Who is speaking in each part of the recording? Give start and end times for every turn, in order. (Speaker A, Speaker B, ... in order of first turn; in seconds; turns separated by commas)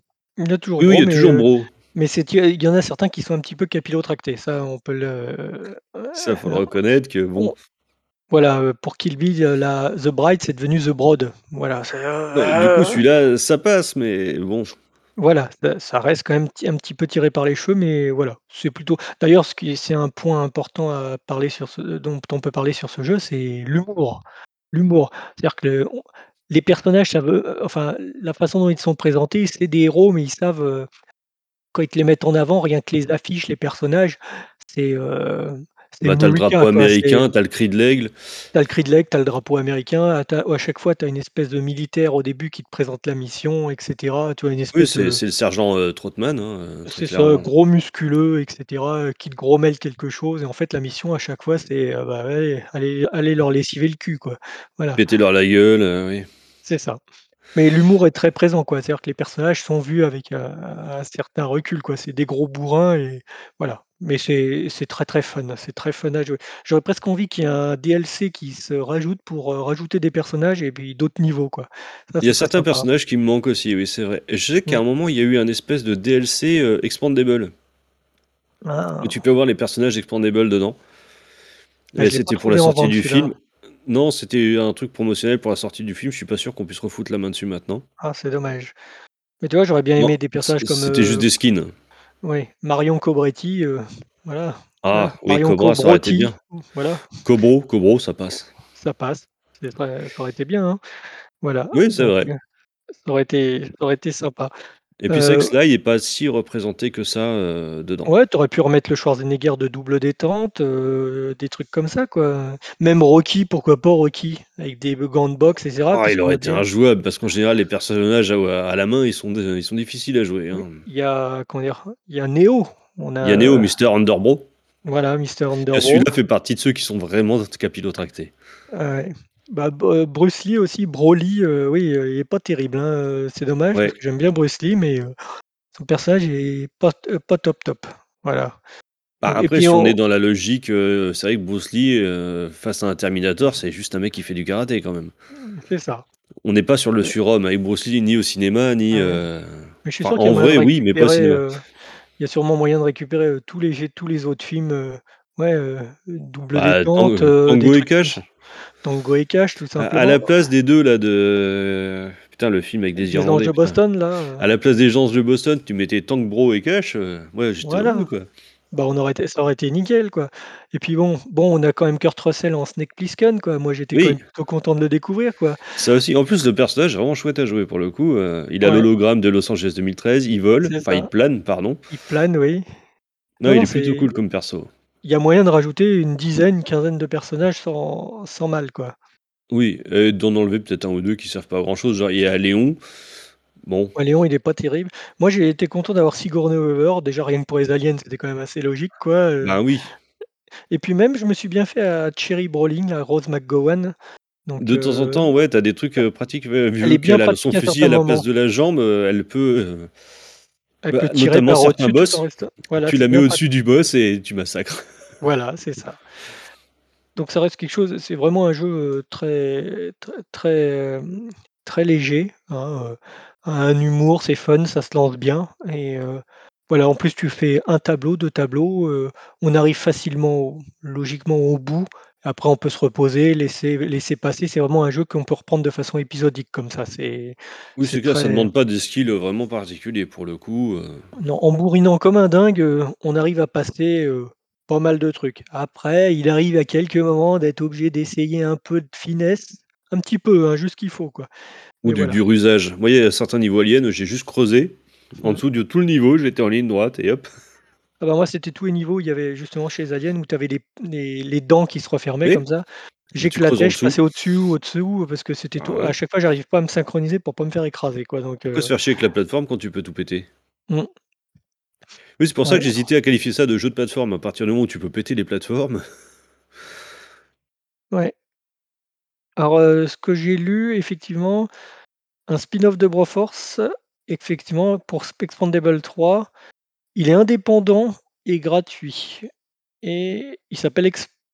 Speaker A: 0.4-6.6, Speaker B: 0.8-1.7, Speaker B: 6.1-7.5, Speaker A: 8.3-13.0, Speaker B: 12.3-14.7, Speaker A: 15.2-30.9, Speaker A: 31.7-37.3, Speaker B: 36.0-38.1, Speaker A: 38.5-45.2, Speaker B: 44.7-47.5, Speaker A: 46.9-55.0, Speaker B: 55.0-56.3, Speaker A: 56.6-57.0, Speaker A: 57.5-72.9, Speaker B: 72.2-77.5, Speaker A: 78.6-79.2, Speaker B: 79.0-80.8, Speaker A: 82.0-83.3, Speaker B: 82.0-87.8, Speaker A: 88.0-88.8, Speaker A: 89.4-91.3, Speaker B: 90.0-91.7, Speaker A: 92.2-97.1, Speaker B: 94.8-96.3, Speaker B: 97.2-98.5, Speaker A: 98.8-100.8, Speaker A: 101.4-102.4, Speaker B: 101.7-102.3, Speaker A: 103.0-104.5, Speaker B: 105.0-108.1, Speaker A: 105.1-105.5, Speaker A: 108.0-116.6, Speaker B: 115.9-120.8, Speaker A: 120.5-123.7, Speaker B: 123.2-124.5, Speaker A: 124.8-126.1, Speaker B: 125.7-128.3, Speaker A: 128.7-135.1, Speaker A: 135.7-138.6, Speaker B: 139.2-145.1, Speaker A: 139.2-140.0, Speaker A: 145.5-146.0, Speaker B: 146.4-151.4, Speaker A: 148.9-149.2, Speaker A: 149.8-151.6, Speaker A: 152.2-158.2, Speaker B: 156.5-158.2, Speaker A: 158.8-160.3, Speaker B: 159.8-163.8, Speaker A: 163.0-164.4, Speaker B: 164.4-168.3, Speaker A: 167.6-168.1, Speaker A: 168.7-175.6, Speaker B: 173.9-174.2, Speaker B: 175.8-181.8, Speaker A: 178.6-178.9, Speaker A: 180.7-181.1, Speaker A: 181.9-182.6, Speaker B: 183.4-184.7, Speaker A: 183.4-184.1, Speaker A: 185.0-188.9, Speaker B: 189.5-192.8, Speaker B: 193.6-193.9, Speaker A: 193.9-199.6, Speaker B: 199.4-199.9, Speaker A: 200.7-203.9, Speaker A: 204.4-205.3, Speaker B: 204.6-209.9, Speaker A: 206.8-208.2, Speaker A: 210.8-213.4, Speaker B: 210.9-212.2, Speaker B: 212.8-214.8, Speaker A: 215.2-216.0, Speaker A: 217.2-238.5, Speaker B: 237.8-241.1, Speaker A: 241.2-251.3, Speaker A: 251.8-252.2, Speaker B: 251.8-257.3, Speaker A: 258.0-268.7, Speaker B: 263.2-264.0, Speaker B: 265.6-265.9, Speaker B: 268.5-270.3, Speaker B: 272.2-275.8, Speaker A: 279.4-281.5, Speaker A: 282.3-286.3, Speaker A: 286.9-289.3, Speaker A: 289.8-291.1